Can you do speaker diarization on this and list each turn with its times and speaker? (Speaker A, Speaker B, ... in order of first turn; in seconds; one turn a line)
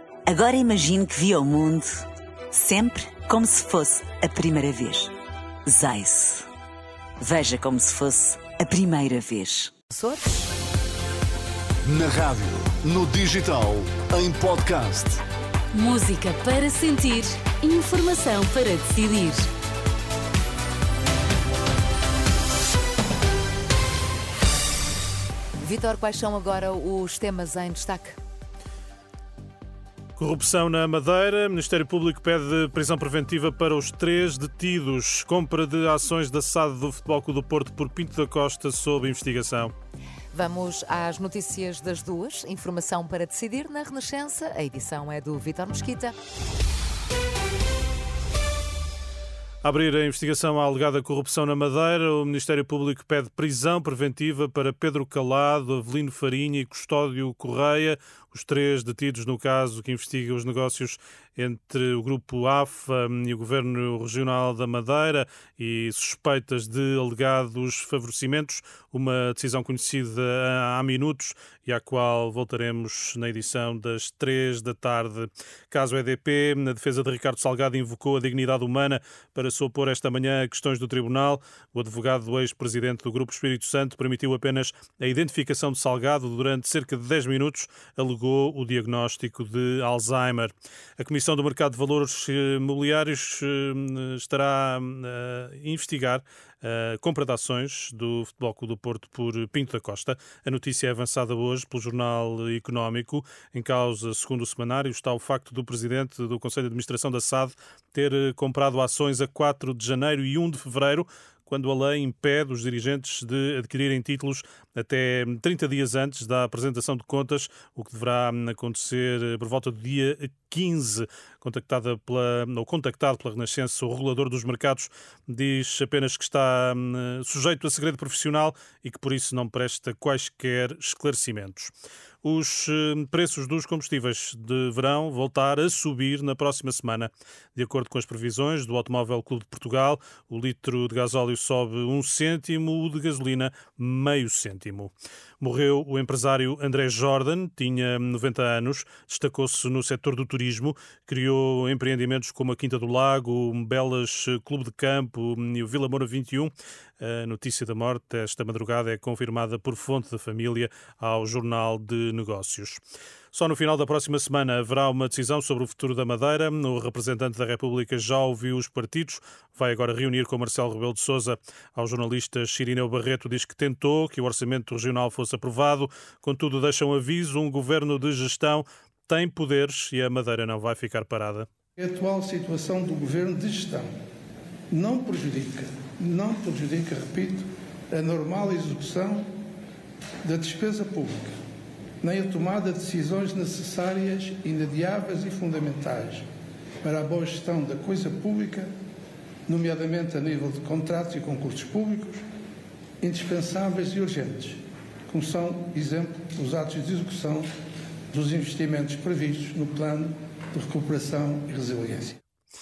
Speaker A: 0.3-5.1
Speaker A: 5.7-6.5
Speaker A: 7.2-9.7
Speaker B: 9.9-10.5
Speaker C: 11.9-15.2
Speaker D: 15.7-19.5
Speaker B: 25.6-28.2
Speaker E: 30.2-39.7
Speaker B: 40.3-46.1
Speaker E: 49.6-162.8
Speaker E: 163.3-181.5
Speaker F: 181.8-183.9
Speaker F: 184.7-189.2
Speaker F: 190.2-191.3
Speaker F: 192.0-196.2
Speaker F: 196.8-198.7
Speaker F: 199.5-202.2
Speaker F: 203.0-207.5
Speaker F: 208.1-212.2